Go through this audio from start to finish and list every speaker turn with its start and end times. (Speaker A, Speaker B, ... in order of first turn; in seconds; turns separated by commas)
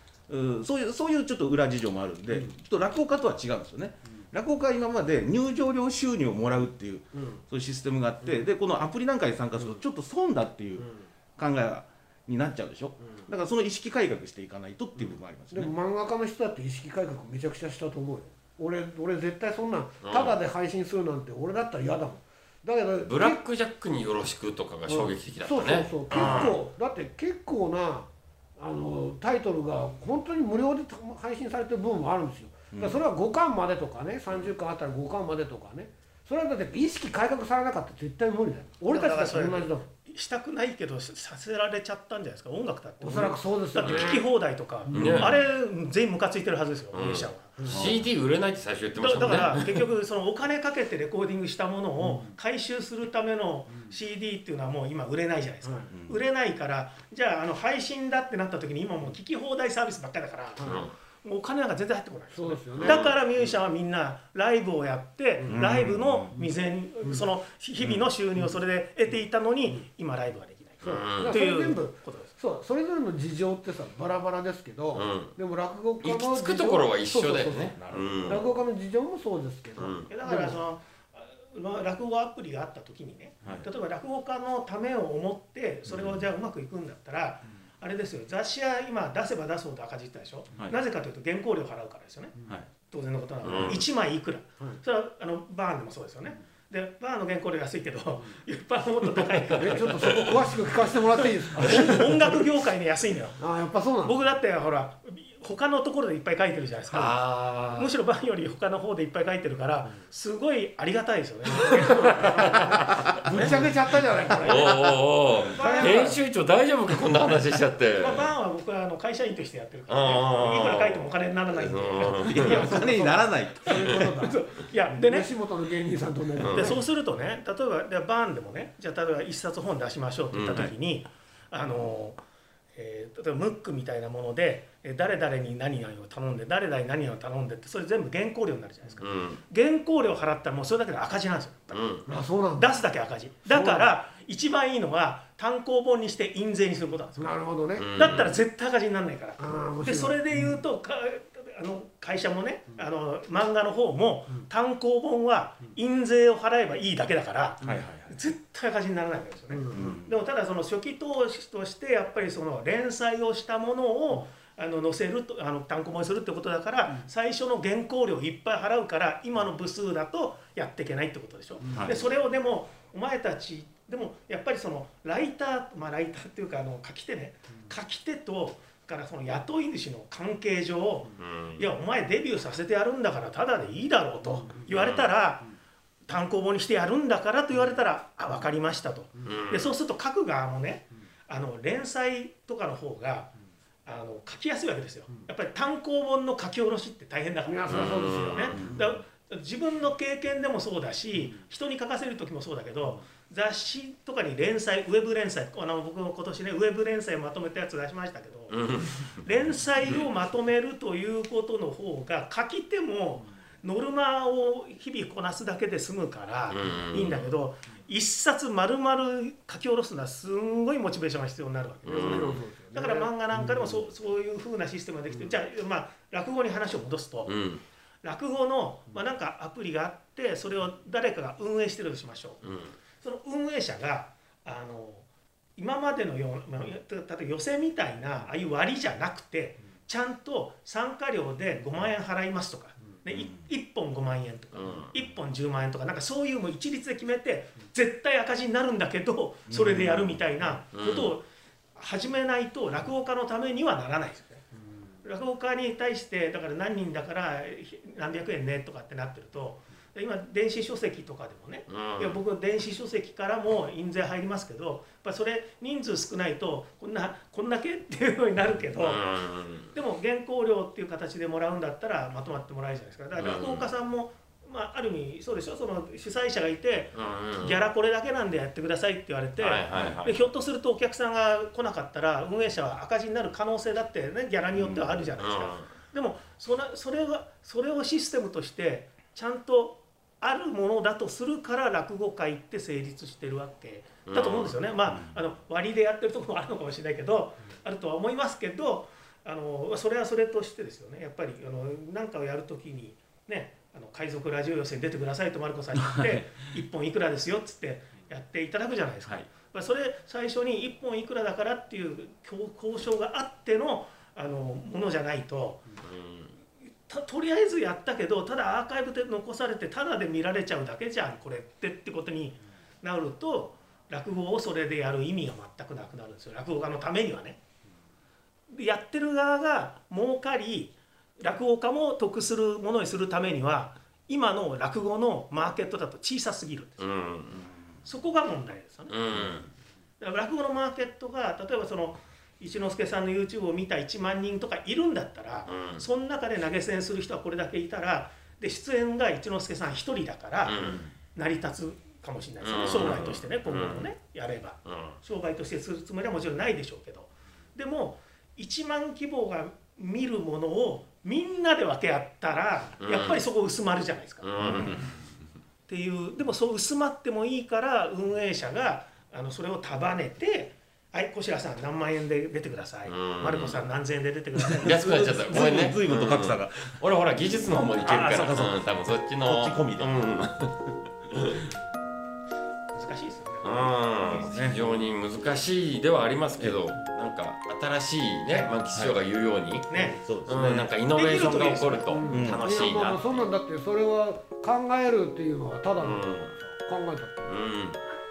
Speaker A: 0.3-15.7, Speaker B: 15.5-23.4, Speaker C: 20.0-20.4, Speaker C: 23.1-26.6, Speaker B: 24.9-39.9, Speaker A: 26.1-26.5, Speaker A: 32.7-33.0, Speaker D: 38.9-47.5, Speaker B: 43.0-44.3, Speaker C: 43.8-44.2, Speaker B: 44.9-45.3, Speaker C: 44.9-45.4, Speaker C: 46.9-49.9, Speaker B: 47.6-47.9, Speaker A: 47.7-48.1, Speaker D: 49.0-72.3, Speaker A: 55.9-56.2, Speaker B: 60.6-60.9, Speaker C: 60.6-60.9, Speaker B: 62.3-63.1, Speaker C: 62.8-63.1, Speaker A: 65.5-66.3, Speaker B: 70.8-80.6, Speaker C: 70.9-71.4, Speaker C: 74.9-75.3, Speaker C: 76.0-78.4, Speaker A: 77.8-78.4, Speaker C: 79.8-80.1, Speaker D: 80.1-100.2, Speaker A: 85.9-86.2, Speaker C: 93.4-93.8, Speaker B: 99.6-102.4, Speaker C: 100.0-100.4, Speaker D: 101.4-103.4, Speaker B: 103.4-104.2, Speaker D: 104.0-107.2, Speaker C: 106.9-107.9, Speaker D: 107.7-113.2, Speaker C: 111.8-113.0, Speaker B: 113.2-115.0, Speaker A: 113.3-113.7, Speaker D: 114.3-114.9, Speaker C: 114.4-118.3, Speaker D: 115.4-116.2, Speaker B: 115.5-116.2, Speaker D: 118.0-122.9, Speaker C: 119.9-122.7, Speaker A: 122.2-124.1, Speaker B: 122.5-126.8, Speaker D: 124.0-125.3, Speaker C: 126.4-126.8, Speaker D: 126.5-132.2, Speaker C: 130.3-130.7, Speaker D: 132.8-142.0, Speaker C: 139.0-139.4, Speaker C: 141.7-142.0, Speaker B: 142.1-142.8, Speaker D: 142.6-147.4, Speaker B: 143.5-143.9, Speaker B: 147.2-148.2, Speaker C: 147.8-148.3, Speaker D: 148.0-185.5, Speaker B: 149.4-150.2, Speaker A: 157.6-158.3, Speaker A: 159.7-160.2, Speaker A: 171.7-172.1, Speaker C: 181.2-181.7, Speaker C: 184.7-185.1, Speaker D: 186.1-193.3, Speaker C: 189.2-189.7, Speaker D: 193.9-227.3, Speaker B: 197.5-198.8, Speaker C: 197.7-198.6, Speaker C: 208.5-209.1, Speaker C: 216.5-217.2, Speaker C: 221.8-222.4, Speaker B: 221.9-223.8, Speaker C: 227.3-227.6, Speaker D: 228.0-232.4, Speaker C: 232.4-232.7, Speaker D: 233.0-251.2, Speaker A: 243.1-243.4, Speaker C: 244.6-244.9, Speaker A: 249.5-250.4, Speaker C: 250.7-251.1, Speaker D: 251.8-254.5, Speaker D: 255.0-269.1, Speaker C: 261.7-262.2, Speaker C: 268.8-269.7, Speaker D: 269.7-315.7, Speaker C: 273.2-273.7, Speaker C: 277.0-277.6, Speaker C: 279.4-280.3, Speaker A: 284.6-284.9, Speaker C: 285.2-285.7, Speaker C: 294.1-294.6, Speaker A: 294.9-295.2, Speaker A: 305.8-306.3, Speaker C: 315.8-316.3, Speaker D: 316.9-327.4, Speaker D: 328.5-336.9, Speaker C: 336.8-337.4, Speaker A: 337.3-337.7, Speaker D: 337.8-339.0, Speaker C: 338.9-339.5, Speaker A: 339.1-339.4, Speaker D: 340.0-364.6, Speaker C: 345.5-345.8, Speaker C: 350.4-350.8, Speaker C: 352.4-353.9, Speaker C: 354.7-355.0, Speaker C: 362.8-363.2, Speaker C: 364.2-364.9, Speaker A: 364.4-364.9, Speaker D: 365.7-375.1, Speaker C: 372.9-373.6, Speaker A: 374.6-376.8, Speaker C: 374.6-380.6, Speaker A: 377.8-380.0, Speaker D: 377.8-378.3, Speaker C: 381.1-381.4, Speaker D: 382.7-384.3, Speaker C: 383.4-393.2, Speaker A: 384.2-384.6, Speaker D: 389.7-390.0, Speaker A: 389.9-390.8, Speaker D: 391.0-392.0, Speaker B: 391.9-397.3, Speaker A: 392.1-392.4, Speaker C: 395.8-396.3, Speaker C: 397.3-397.8